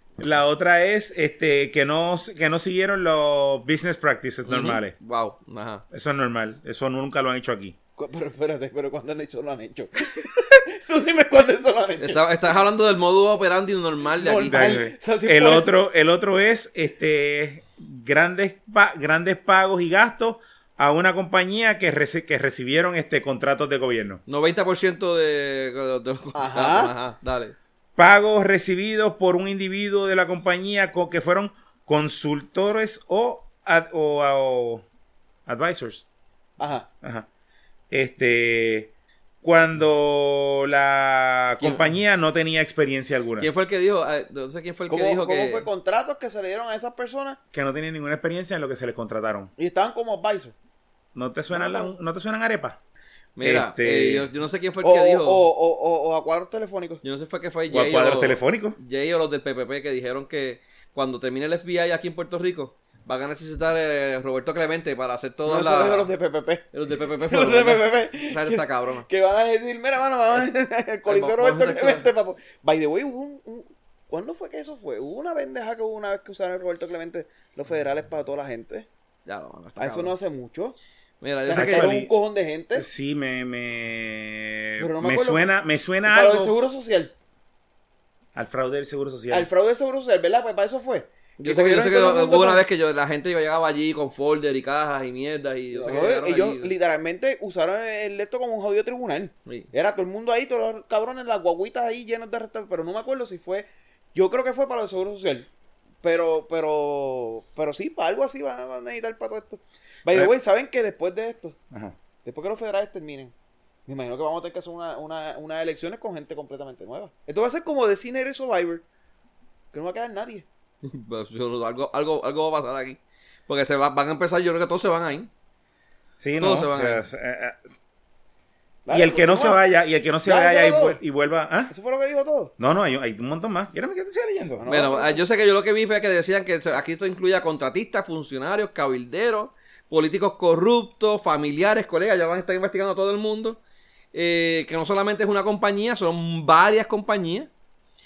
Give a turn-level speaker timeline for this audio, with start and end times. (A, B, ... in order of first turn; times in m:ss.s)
0:00.2-0:05.0 A
0:04.5-0:05.8 B
0:05.9-0:07.8 A
0:08.0-0:12.3 C
0:12.0-0:14.8 B
0:14.2-0:15.7 C
0:14.5-0:24.2 A
0:24.3-0:27.6 B
0:26.4-0:26.9 C
0:28.0-0:34.8 A
0:35.5-0:36.1 A
0:36.6-0:36.9 C
0:37.0-0:37.3 A
0:37.9-0:38.9 A
0:39.4-0:43.5 A
0:41.6-0:41.9 B
0:43.4-0:45.7 B
0:44.9-0:47.4 C
0:47.5-0:49.5 A
0:49.6-0:50.6 C
0:51.2-0:52.8 A
0:51.5-0:51.9 C
0:53.4-0:55.5 B
0:53.4-0:54.3 A
0:54.8-0:57.0 C
0:57.0-1:06.1 B
0:57.7-0:58.8 A
1:05.4-1:18.9 C
1:06.7-1:09.1 B
1:11.1-1:12.1 B
1:19.3-1:20.2 B
1:19.8-1:20.8 C
1:21.2-1:21.9 B
1:21.5-1:22.9 C
1:21.5-1:22.1 A
1:22.8-1:26.5 A
1:24.8-1:25.5 C
1:26.0-1:27.1 C
1:28.4-1:29.5 A
1:29.3-1:32.6 C
1:31.4-1:36.7 B
1:35.7-1:45.5 C
1:46.0-1:51.6 C
1:51.7-1:52.0 A
1:52.2-1:53.3 C
1:53.9-1:58.8 C
1:59.7-2:00.5 C
2:00.8-2:05.3 B
2:06.2-2:07.6 A
2:06.4-2:07.0 B
2:08.9-2:09.6 C
2:08.9-2:11.7 A
2:10.2-2:11.0 C
2:11.7-2:12.5 C
2:12.6-2:14.6 A
2:14.6-2:15.2 C
2:14.7-2:23.6 B
2:24.1-2:27.5 B